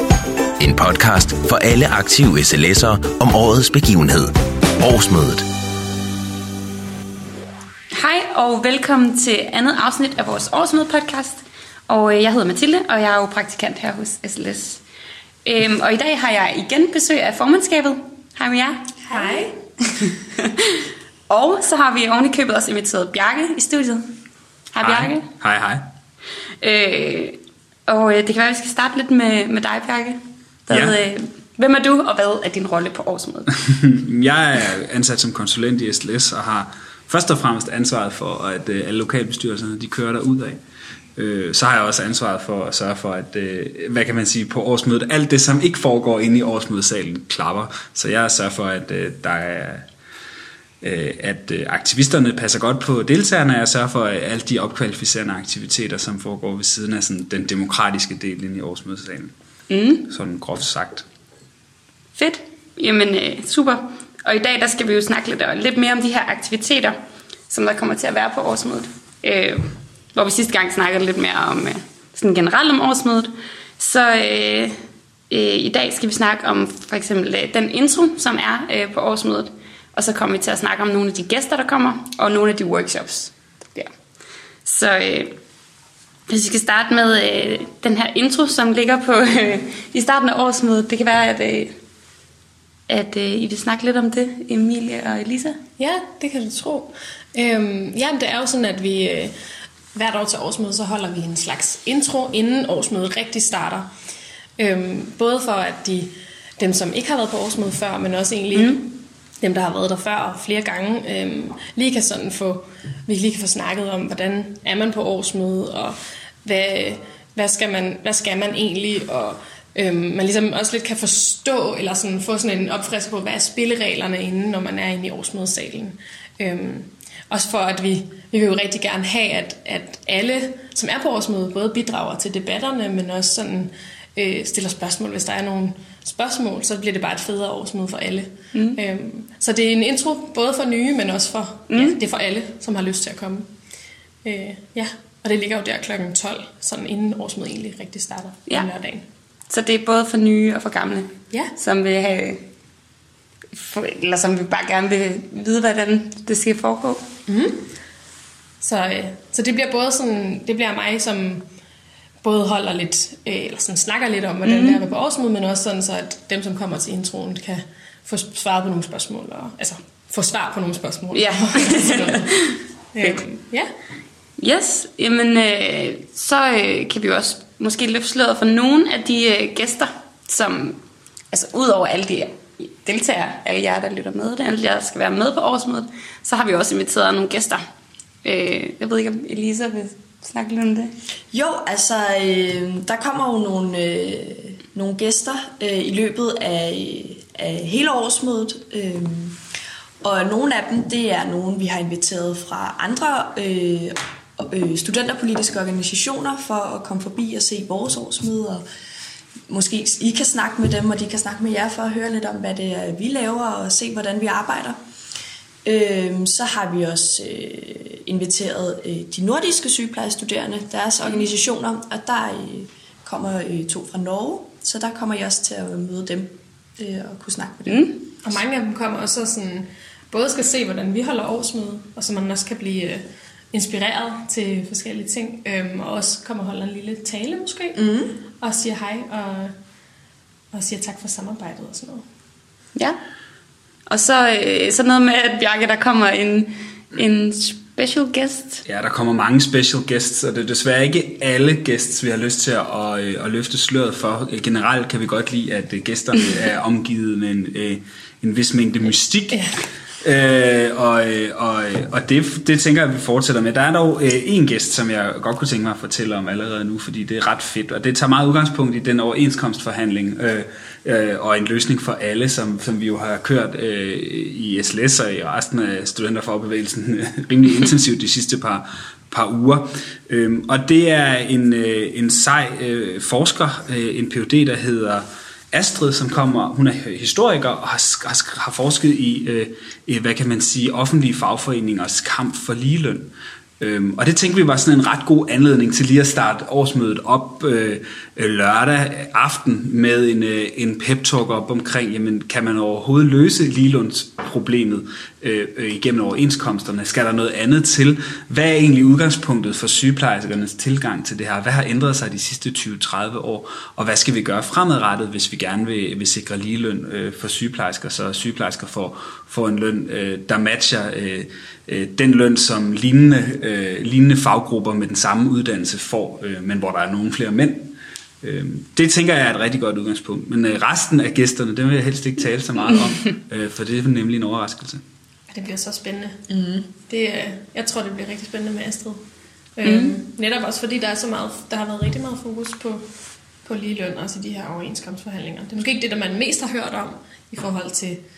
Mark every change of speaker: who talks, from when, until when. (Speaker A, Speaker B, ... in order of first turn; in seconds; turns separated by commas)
Speaker A: 0.6-5.4, Speaker B: 7.9-14.8, Speaker B: 15.4-18.8, Speaker C: 19.1-19.5, Speaker D: 19.1-19.5, Speaker B: 19.9-24.0, Speaker B: 24.7-25.2, Speaker E: 24.8-25.8, Speaker B: 26.6-33.5, Speaker E: 30.7-31.0, Speaker E: 33.6-40.6, Speaker E: 41.1-49.8, Speaker E: 50.8-59.3, Speaker B: 59.7-60.1, Speaker E: 60.1-61.0, Speaker B: 62.1-66.9, Speaker B: 67.5-74.7, Speaker B: 75.3-83.9, Speaker B: 84.6-85.3, Speaker B: 86.3-91.7, Speaker B: 92.9-95.6, Speaker C: 95.8-99.3, Speaker C: 99.9-103.9, Speaker C: 104.6-143.5, Speaker B: 108.5-108.8, Speaker B: 138.5-138.8, Speaker B: 141.7-142.0, Speaker C: 144.2-149.0, Speaker B: 149.5-152.4, Speaker B: 153.5-157.0, Speaker C: 157.3-157.7, Speaker C: 158.6-161.5, Speaker C: 162.2-172.3, Speaker B: 164.4-164.8, Speaker B: 171.1-173.2, Speaker C: 172.9-173.7, Speaker B: 174.4-180.8, Speaker B: 181.3-187.6, Speaker B: 188.2-190.9, Speaker D: 191.3-199.4, Speaker D: 200.0-208.6, Speaker D: 209.5-214.8, Speaker D: 215.6-227.9, Speaker B: 227.7-228.0, Speaker C: 228.2-237.8, Speaker D: 237.7-238.2, Speaker C: 238.4-239.5, Speaker C: 240.5-242.0, Speaker B: 243.9-248.6, Speaker E: 248.6-259.4, Speaker E: 260.0-334.8, Speaker C: 335.3-336.2, Speaker D: 336.3-336.7, Speaker C: 336.8-339.0, Speaker C: 339.6-342.8, Speaker B: 339.6-339.9, Speaker C: 343.4-348.0